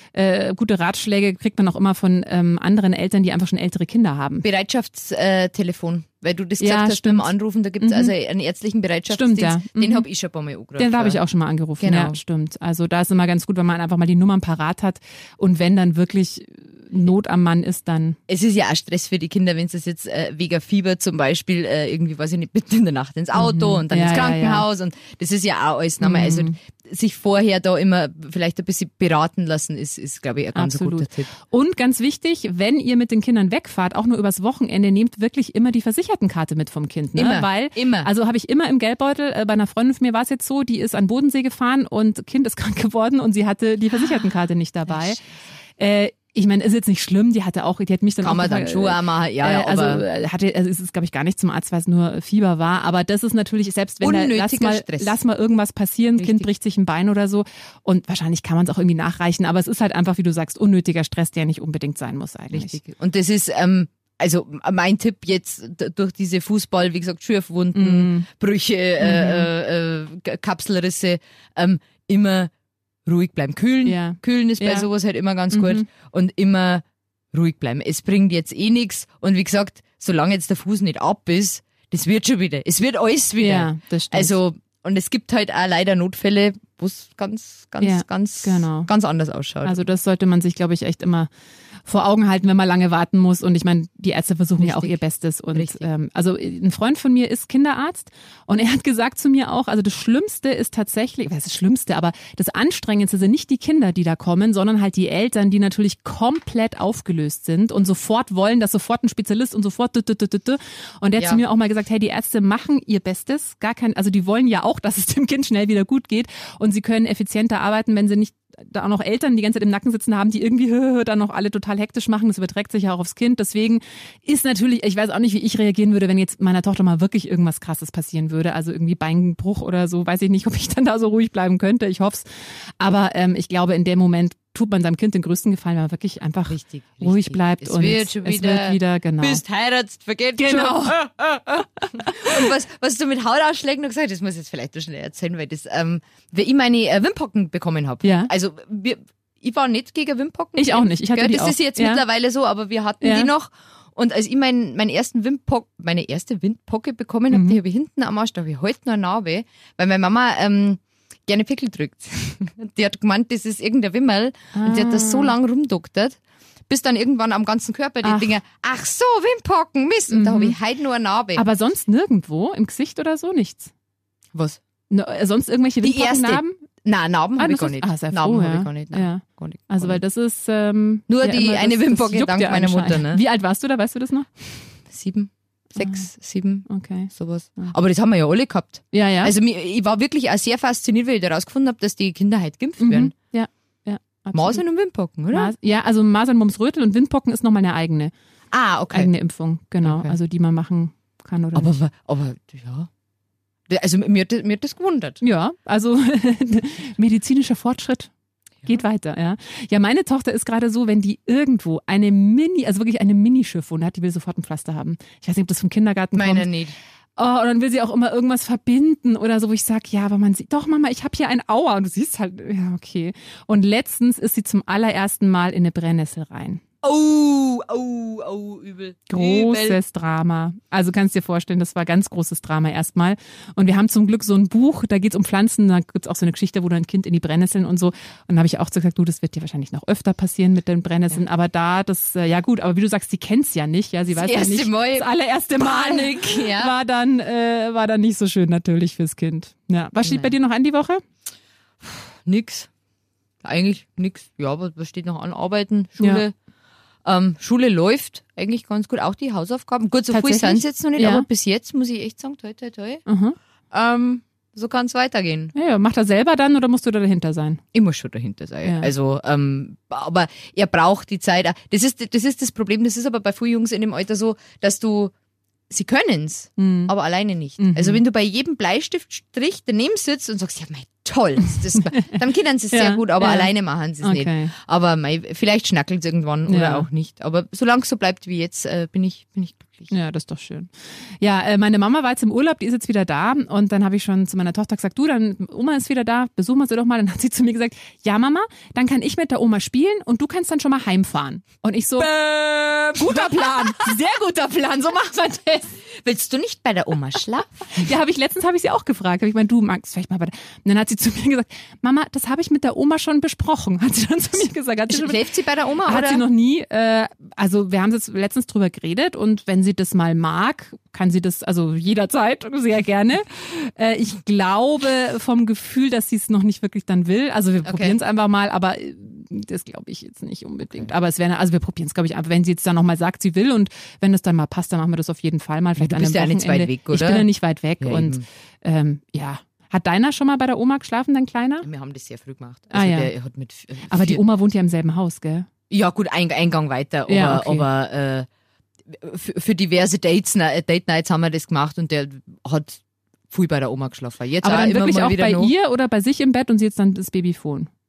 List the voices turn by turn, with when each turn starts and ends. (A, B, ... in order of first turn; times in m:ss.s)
0:00.1-0:04.4 A
0:04.4-0:11.2 B
0:06.6-0:08.1 A
0:09.1-0:10.0 A
0:10.8-0:18.2 A
0:11.8-0:12.2 B
0:18.3-0:31.3 B
0:23.4-0:24.7 A
0:26.0-0:26.6 A
0:30.6-0:45.2 A
0:37.2-0:38.1 B
0:43.9-0:44.3 B
0:44.9-0:45.2 B
0:45.8-1:02.8 A
0:48.2-0:50.0 B
0:54.0-0:55.1 B
0:56.2-0:56.5 B
1:02.5-1:12.5 B
1:07.8-1:08.3 A
1:09.0-1:09.5 A
1:13.0-1:29.8 B
1:13.8-1:14.9 A
1:15.5-1:15.9 A
1:23.4-1:24.4 A
1:27.8-1:28.9 A
1:29.6-1:31.3 A
1:31.9-2:12.3 A
1:34.6-1:35.0 B
1:35.5-1:35.9 B
2:12.8-2:19.4 A
2:16.5-2:51.4 B
2:20.4-2:21.0 A
2:21.8-2:22.5 A
2:28.0-2:28.3 A
2:30.6-2:32.0 A
2:33.0-2:33.3 A
2:37.3-2:37.6 A
2:44.5-2:45.3 A
2:48.0-2:48.4 A
2:50.1-2:50.6 A
2:51.4-2:53.7 A
2:54.3-2:54.6 B
2:54.9-2:56.6 A
2:55.8-3:00.0 B
2:57.4-3:04.5 A
3:01.1-3:03.2 B
3:04.9-3:13.1 B
3:05.8-3:06.0 A
3:06.7-3:07.7 A
3:08.9-3:09.3 A
3:12.8-3:14.6 A
3:14.3-3:15.5 B
3:15.3-3:18.1 A
3:18.5-3:19.1 B
3:18.9-3:21.7 A
3:19.8-3:20.2 B
3:21.5-3:22.9 B
3:23.7-3:25.2 B
3:25.2-3:28.1 A
3:28.6-3:36.5 A
3:36.2-3:36.8 B
3:37.2-3:46.6 A
3:46.8-3:49.8 B
3:49.1-4:11.0 A
4:04.1-4:06.7 B
4:10.0-4:10.3 B
4:11.8-4:12.7 B
4:13.4-4:16.3 B
4:17.0-4:23.0 B
4:20.1-4:21.3 A
4:23.1-4:23.4 A
4:23.7-4:25.5 B
4:25.5-4:27.6 A
4:27.7-4:35.1 B
4:28.6-4:28.9 A
4:35.7-4:49.9 B
4:36.6-4:36.9 A
4:37.6-4:38.0 A
4:41.8-4:42.2 A
4:42.7-4:44.5 A
4:46.5-4:46.9 A
4:49.9-4:50.7 A
4:51.2-5:02.1 A
5:02.0-5:03.9 B
5:03.0-5:05.8 A
5:05.9-5:07.7 B
5:07.7-5:15.2 A
5:14.9-5:16.2 B
5:15.9-5:41.7 A
5:27.6-5:28.0 B
5:35.8-5:37.3 B
5:37.8-5:38.2 B
5:41.6-5:44.2 B
5:42.7-5:43.1 A
5:43.9-5:45.5 A
5:45.7-5:48.3 B
5:47.1-5:47.6 A
5:48.9-5:55.5 B
5:54.4-5:57.7 A